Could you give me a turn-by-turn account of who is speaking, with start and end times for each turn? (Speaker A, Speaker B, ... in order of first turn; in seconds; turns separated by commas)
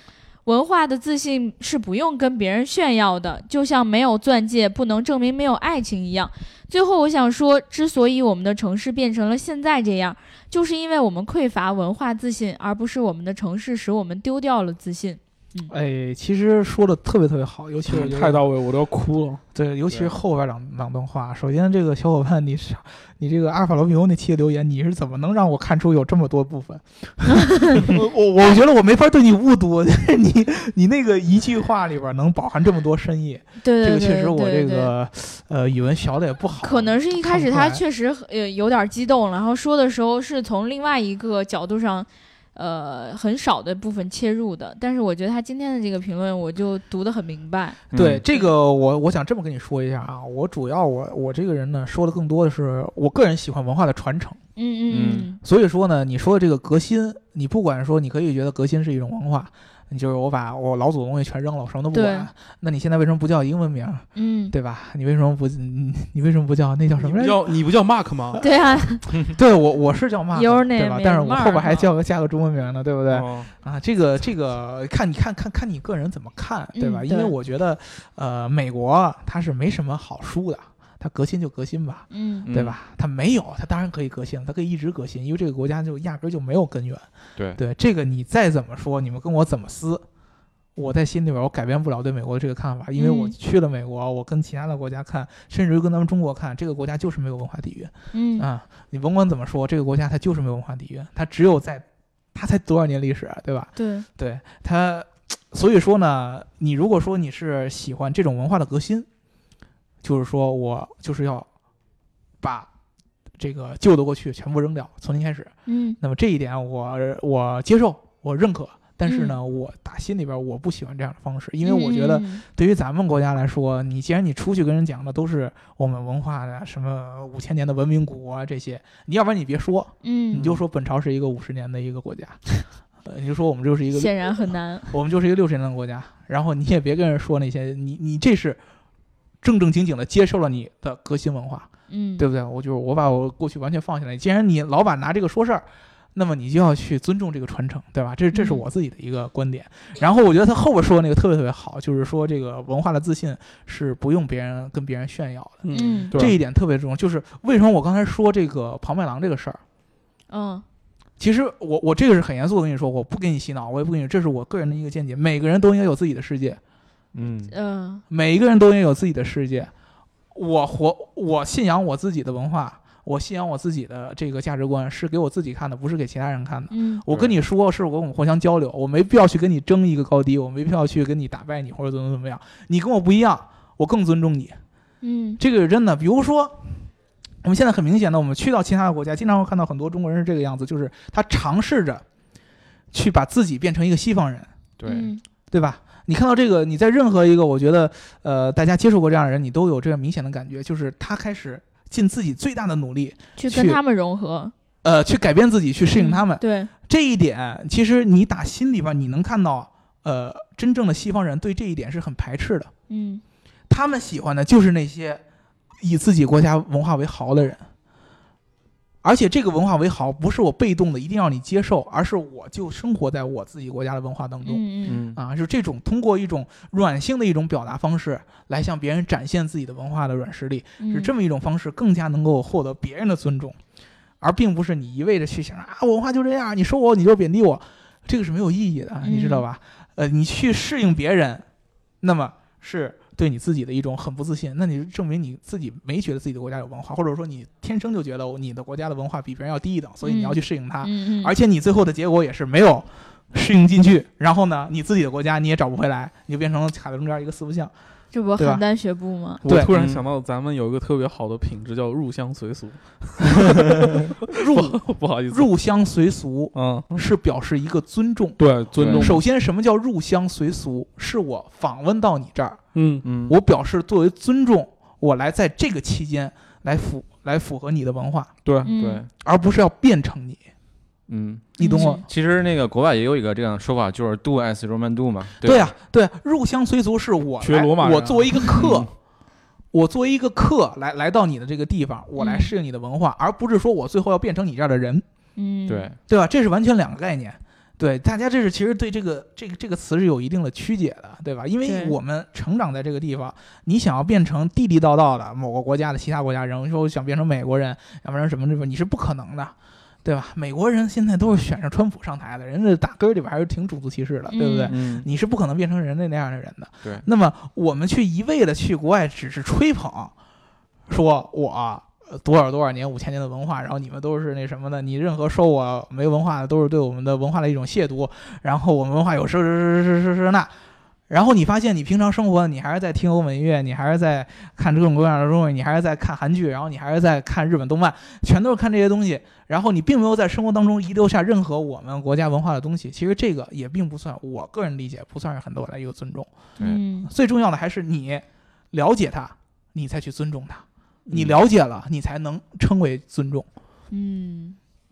Speaker A: 0.5-15.7, Speaker B: 15.7-18.5, Speaker C: 17.9-19.4, Speaker B: 19.5-37.8, Speaker A: 33.6-34.9, Speaker A: 36.6-48.5, Speaker D: 47.9-48.2, Speaker B: 47.9-54.4, Speaker A: 54.6-55.4, Speaker D: 54.9-55.3, Speaker B: 55.4-67.5, Speaker A: 61.9-62.3, Speaker A: 64.2-64.5, Speaker C: 67.0-68.5, Speaker A: 68.4-69.0, Speaker B: 69.3-90.0, Speaker A: 70.3-71.7, Speaker C: 73.1-73.5, Speaker A: 76.8-77.3, Speaker A: 82.1-82.5, Speaker D: 82.5-82.8, Speaker B: 90.8-109.1, Speaker A: 93.0-93.3, Speaker A: 98.1-98.5, Speaker A: 103.8-104.1, Speaker B: 110.0-111.5, Speaker B: 112.4-112.7, Speaker B: 113.4-132.5, Speaker A: 115.7-116.0, Speaker A: 119.1-119.4, Speaker A: 121.6-122.5, Speaker A: 130.0-130.6, Speaker B: 133.0-134.3, Speaker A: 133.9-134.9, Speaker B: 134.9-138.6, Speaker B: 139.4-159.6, Speaker A: 141.9-142.2, Speaker A: 148.3-148.6, Speaker C: 155.6-156.3, Speaker A: 155.7-156.1, Speaker A: 160.3-160.7, Speaker B: 161.2-166.6, Speaker D: 167.1-167.5, Speaker A: 167.5-168.0, Speaker B: 168.1-169.7, Speaker B: 170.3-184.6, Speaker A: 176.7-177.0, Speaker D: 177.1-177.3, Speaker A: 185.0-185.4, Speaker B: 185.4-186.9, Speaker B: 187.4-192.0, Speaker B: 192.9-194.5, Speaker D: 194.8-195.1, Speaker A: 194.9-195.2, Speaker B: 195.5-203.8, Speaker A: 203.4-204.5, Speaker B: 204.8-212.7, Speaker A: 205.9-206.7, Speaker A: 212.9-213.2, Speaker B: 213.7-215.2, Speaker B: 215.8-217.7, Speaker B: 219.0-233.6, Speaker A: 224.4-225.0, Speaker D: 224.9-225.2, Speaker A: 230.8-231.1, Speaker B: 234.2-241.5, Speaker A: 239.0-239.4, Speaker B: 242.0-257.7, Speaker A: 250.0-251.3, Speaker A: 258.1-259.4, Speaker B: 258.4-258.6, Speaker C: 259.4-265.5, Speaker B: 259.4-259.7, Speaker D: 259.7-260.0, Speaker B: 264.3-272.6, Speaker C: 266.5-267.0, Speaker C: 268.4-269.2, Speaker D: 268.8-269.2, Speaker C: 272.7-273.1, Speaker D: 273.0-273.4, Speaker B: 273.3-278.3, Speaker C: 278.4-278.7, Speaker A: 278.6-279.0, Speaker D: 278.7-279.1, Speaker B: 279.2-280.4, Speaker D: 281.1-285.7, Speaker A: 281.6-282.0, Speaker B: 281.6-282.1, Speaker B: 285.4-288.9, Speaker C: 287.4-288.2, Speaker D: 288.5-288.9, Speaker B: 289.7-295.1, Speaker A: 292.2-292.5, Speaker A: 295.4-295.9, Speaker D: 295.7-296.0, Speaker B: 296.1-320.1, Speaker A: 301.6-302.0, Speaker A: 314.3-314.7, Speaker D: 314.7-315.1, Speaker B: 320.9-330.6, Speaker B: 331.1-346.3, Speaker A: 346.6-347.1, Speaker B: 347.1-353.5, Speaker D: 351.1-351.4, Speaker A: 353.9-354.6